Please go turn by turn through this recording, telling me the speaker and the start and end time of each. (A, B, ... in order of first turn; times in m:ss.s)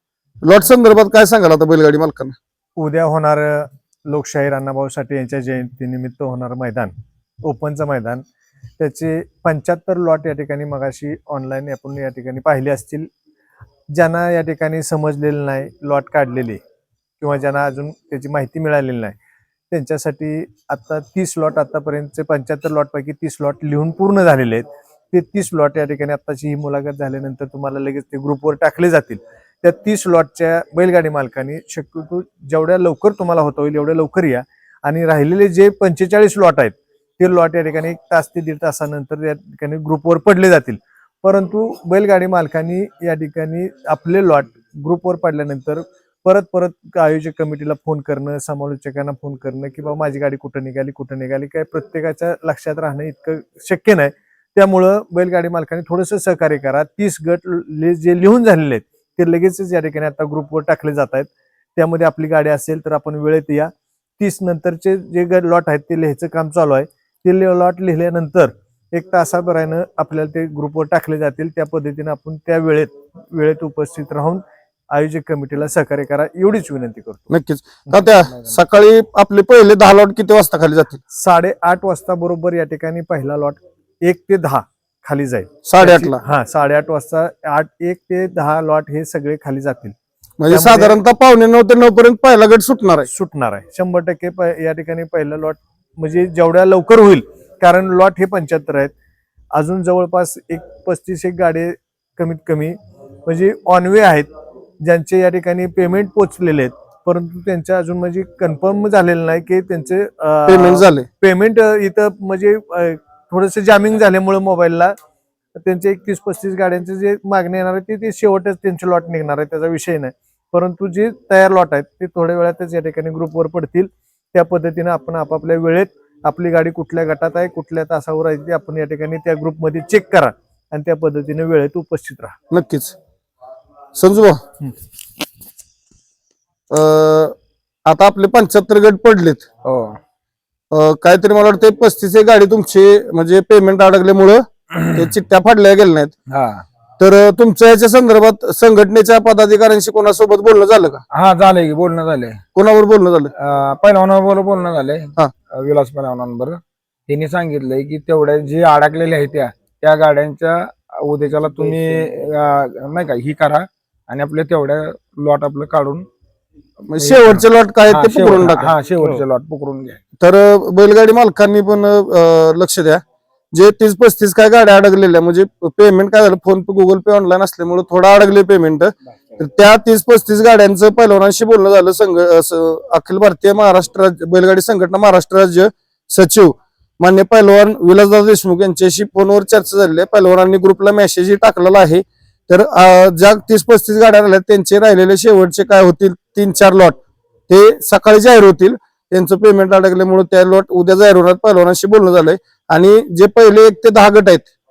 0:00.4-0:02.4 A
0:02.8-0:06.9 B
0:07.4-0:08.2 B
0:08.8-0:13.1 B
0:13.9-0:16.6 B
0:17.2-0:19.2 B
0:19.7-1:17.3 B
1:17.3-1:21.0 A
1:21.1-1:29.9 B
1:25.6-1:26.2 A
1:30.4-1:33.1 A
1:30.5-1:31.0 B
1:33.1-1:38.9 B
1:39.5-1:44.3 B
1:44.8-1:54.9 B
1:50.5-1:51.1 A
1:55.6-2:12.3 B
2:12.5-2:13.0 A
2:13.9-2:14.4 A
2:16.7-2:17.3 A
2:17.8-2:19.4 A
2:19.6-2:20.0 C
2:20.7-2:26.1 A
2:26.3-2:26.6 C
2:27.0-2:31.0 A
2:31.1-2:32.4 C
2:32.5-2:33.3 A
2:33.4-2:46.0 C
2:46.9-2:48.7 A
2:47.0-2:50.0 C
2:50.2-2:53.0 A
2:53.5-3:24.5 A